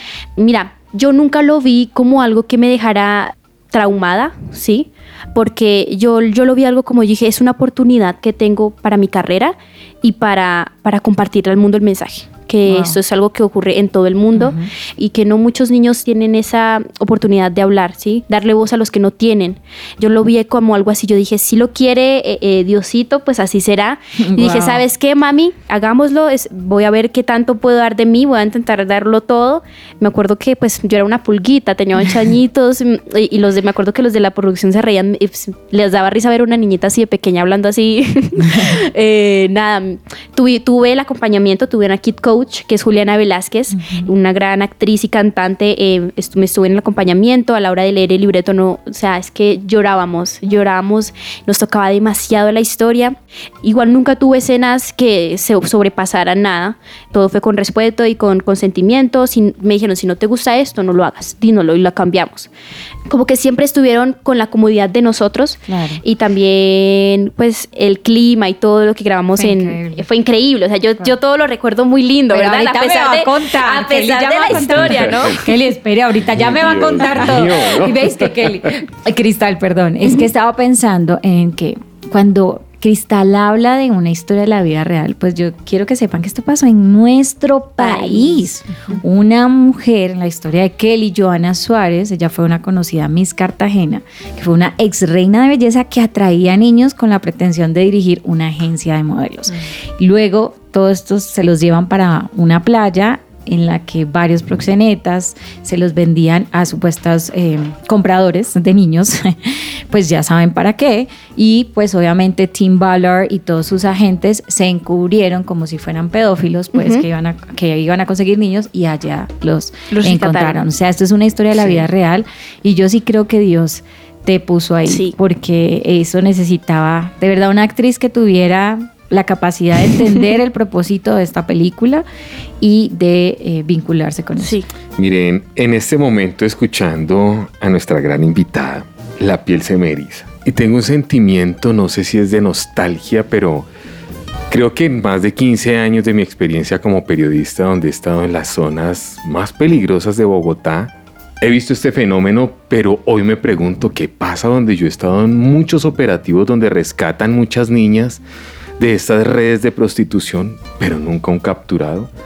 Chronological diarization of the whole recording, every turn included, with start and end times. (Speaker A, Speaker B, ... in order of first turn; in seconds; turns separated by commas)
Speaker A: 0.4-62.5, Speaker B: 12.7-13.0, Speaker B: 14.3-14.7, Speaker B: 24.2-24.8, Speaker B: 38.4-38.7, Speaker B: 43.7-44.1, Speaker A: 63.1-75.5, Speaker B: 65.7-66.0, Speaker B: 69.3-70.0, Speaker B: 72.3-132.0, Speaker C: 74.6-75.3, Speaker C: 76.3-78.8, Speaker A: 87.8-88.5, Speaker A: 116.7-117.0, Speaker A: 119.9-120.6, Speaker A: 124.8-125.1, Speaker B: 132.6-134.6, Speaker A: 134.4-134.7, Speaker C: 135.0-143.7, Speaker C: 144.5-158.2, Speaker C: 158.8-162.1